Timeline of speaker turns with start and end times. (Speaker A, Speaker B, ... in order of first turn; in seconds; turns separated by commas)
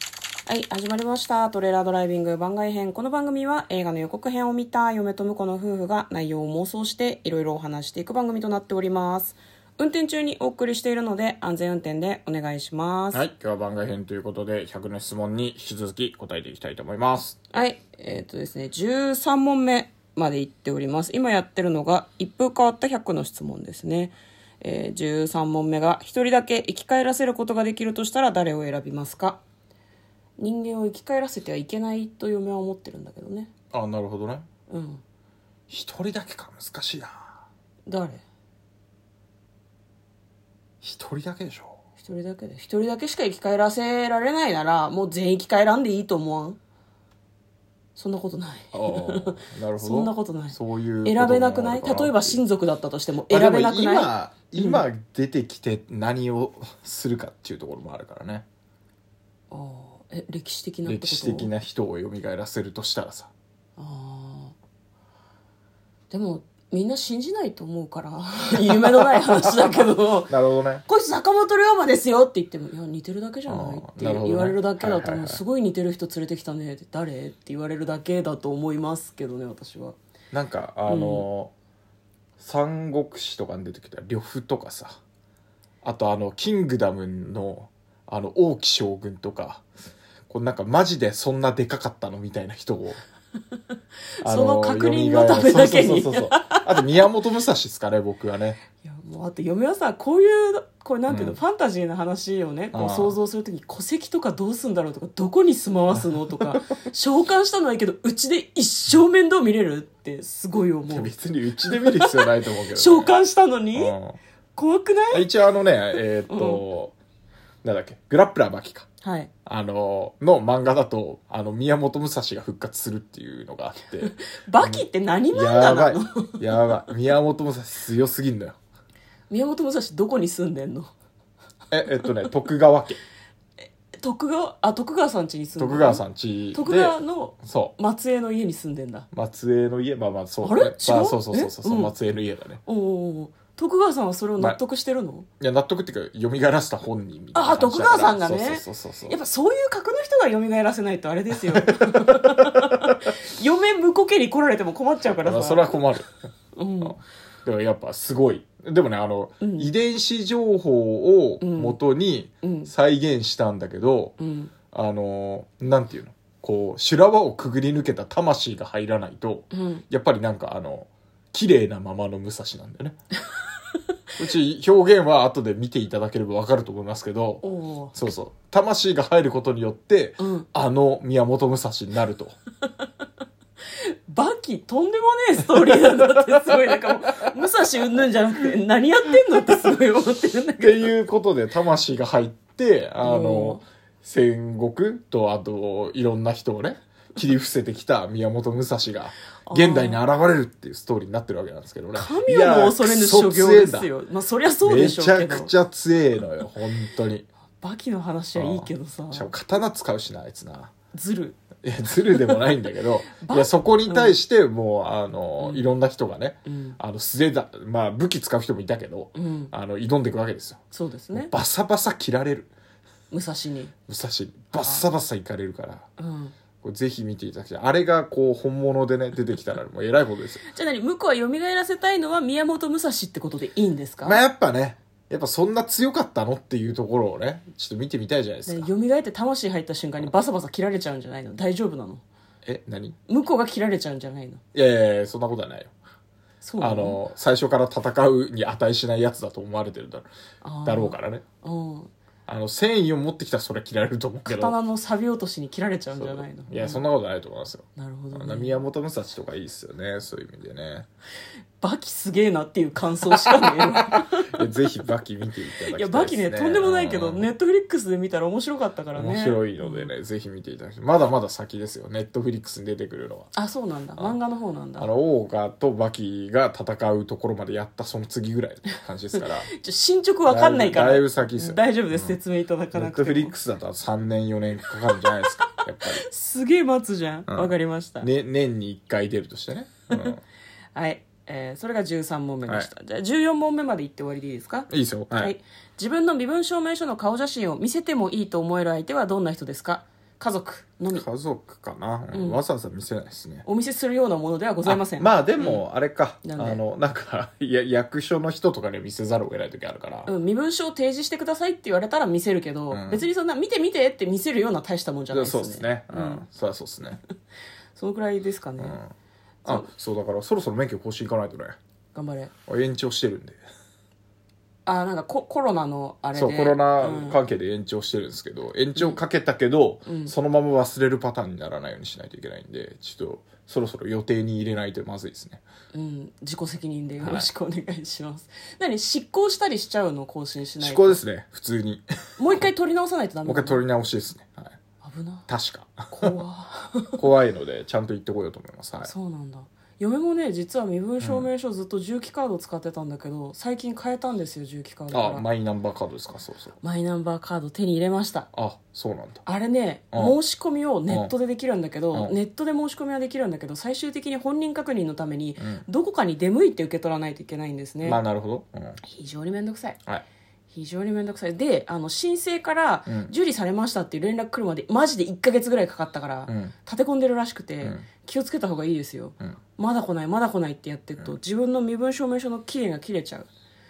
Speaker A: 0.5-13.2, Speaker B: 13.1-17.4, Speaker A: 17.5-29.4, Speaker A: 30.4-33.5, Speaker B: 33.7-34.5, Speaker A: 34.7-35.0, Speaker B: 35.7-37.2, Speaker A: 37.9-38.2, Speaker B: 40.8-41.8, Speaker A: 42.0-46.6, Speaker A: 48.0-54.8, Speaker B: 48.7-52.4, Speaker B: 53.3-58.5, Speaker A: 59.5-61.5, Speaker B: 60.9-63.3, Speaker A: 63.8-64.5, Speaker A: 66.1-70.3, Speaker B: 69.1-69.5, Speaker B: 70.3-70.8, Speaker A: 70.8-80.0, Speaker B: 73.5-75.4, Speaker B: 80.3-81.5, Speaker A: 80.9-81.2, Speaker B: 82.4-85.0, Speaker B: 85.8-89.7, Speaker B: 90.3-93.0, Speaker A: 94.2-96.8, Speaker B: 94.2-98.6, Speaker A: 98.8-111.1, Speaker B: 101.1-101.4, Speaker B: 102.7-103.2, Speaker B: 105.9-106.6, Speaker B: 110.9-113.1, Speaker A: 111.6-113.9, Speaker B: 113.7-114.2, Speaker A: 114.5-115.3, Speaker B: 115.1-116.9, Speaker A: 116.3-116.6, Speaker B: 117.6-118.9, Speaker A: 119.0-119.3, Speaker B: 119.5-128.6, Speaker A: 124.0-126.4, Speaker A: 129.3-130.9, Speaker B: 131.7-133.0, Speaker A: 133.9-136.0, Speaker B: 135.6-137.7, Speaker A: 136.5-139.1, Speaker B: 139.1-142.6, Speaker A: 140.4-141.9, Speaker A: 142.7-145.2, Speaker B: 145.4-149.2, Speaker A: 147.3-155.7, Speaker B: 151.5-152.8, Speaker B: 155.2-156.2, Speaker A: 156.5-157.0, Speaker B: 156.8-164.1, Speaker A: 159.4-159.7, Speaker A: 161.4-161.8, Speaker A: 162.4-162.7, Speaker A: 164.2-164.5, Speaker B: 164.7-172.9, Speaker A: 169.5-169.8, Speaker B: 174.2-177.4, Speaker A: 177.4-177.9, Speaker B: 177.9-182.4, Speaker A: 180.2-180.4, Speaker A: 183.7-190.9, Speaker B: 190.6-203.9, Speaker A: 193.0-193.6, Speaker A: 199.4-200.0, Speaker A: 201.9-205.5, Speaker B: 204.6-207.3, Speaker A: 207.6-209.3, Speaker B: 208.3-210.7, Speaker A: 210.9-211.4, Speaker B: 211.6-220.6, Speaker A: 212.1-212.5, Speaker A: 213.2-214.2, Speaker A: 215.4-215.7, Speaker A: 216.4-216.8, Speaker A: 219.1-219.5, Speaker A: 220.7-221.3, Speaker B: 221.1-222.5, Speaker A: 223.1-223.7, Speaker B: 223.9-225.8, Speaker A: 224.6-224.8, Speaker A: 226.0-226.3, Speaker B: 226.6-230.4, Speaker A: 230.5-234.2, Speaker B: 234.0-238.7, Speaker A: 238.5-242.0, Speaker B: 242.4-242.9, Speaker A: 243.1-244.4, Speaker B: 244.5-245.7, Speaker A: 246.4-247.0, Speaker B: 246.6-250.1, Speaker A: 250.4-251.9, Speaker B: 250.6-251.2, Speaker B: 252.3-254.5, Speaker A: 254.2-256.8, Speaker B: 255.9-260.9, Speaker A: 257.8-258.6, Speaker A: 261.6-264.5, Speaker B: 263.2-263.6, Speaker B: 264.3-267.3, Speaker A: 265.6-269.9, Speaker B: 268.9-273.3, Speaker A: 273.3-274.9, Speaker B: 274.8-279.5, Speaker A: 279.2-283.3, Speaker B: 280.3-282.2, Speaker B: 282.7-286.0, Speaker A: 284.9-285.3, Speaker A: 286.0-288.1, Speaker B: 287.3-290.2, Speaker A: 290.7-301.0, Speaker B: 294.7-295.3, Speaker B: 300.9-303.4, Speaker A: 302.1-302.4, Speaker A: 303.4-305.6, Speaker B: 304.6-310.1, Speaker A: 306.2-306.6, Speaker A: 310.1-316.2, Speaker B: 312.7-313.1, Speaker B: 315.1-317.0, Speaker A: 317.7-318.8, Speaker B: 318.6-318.9, Speaker B: 319.4-321.6, Speaker A: 321.9-322.3, Speaker B: 322.5-323.4, Speaker A: 324.6-327.2, Speaker B: 326.1-335.4, Speaker A: 329.9-330.1, Speaker A: 335.7-341.0, Speaker B: 337.0-337.3, Speaker B: 340.6-342.4, Speaker A: 342.2-343.6, Speaker B: 343.2-344.6, Speaker A: 344.8-345.2, Speaker B: 345.3-346.2, Speaker A: 345.9-347.0, Speaker B: 346.9-348.9, Speaker A: 348.8-355.2, Speaker B: 351.0-351.3, Speaker B: 354.9-356.6, Speaker A: 356.6-358.3, Speaker B: 358.3-359.2, Speaker A: 359.2-368.0, Speaker B: 359.9-360.2, Speaker B: 365.4-365.6, Speaker B: 367.8-368.8, Speaker A: 368.8-369.8, Speaker A: 370.5-383.3, Speaker B: 372.9-373.1, Speaker B: 376.3-376.5, Speaker B: 377.6-377.9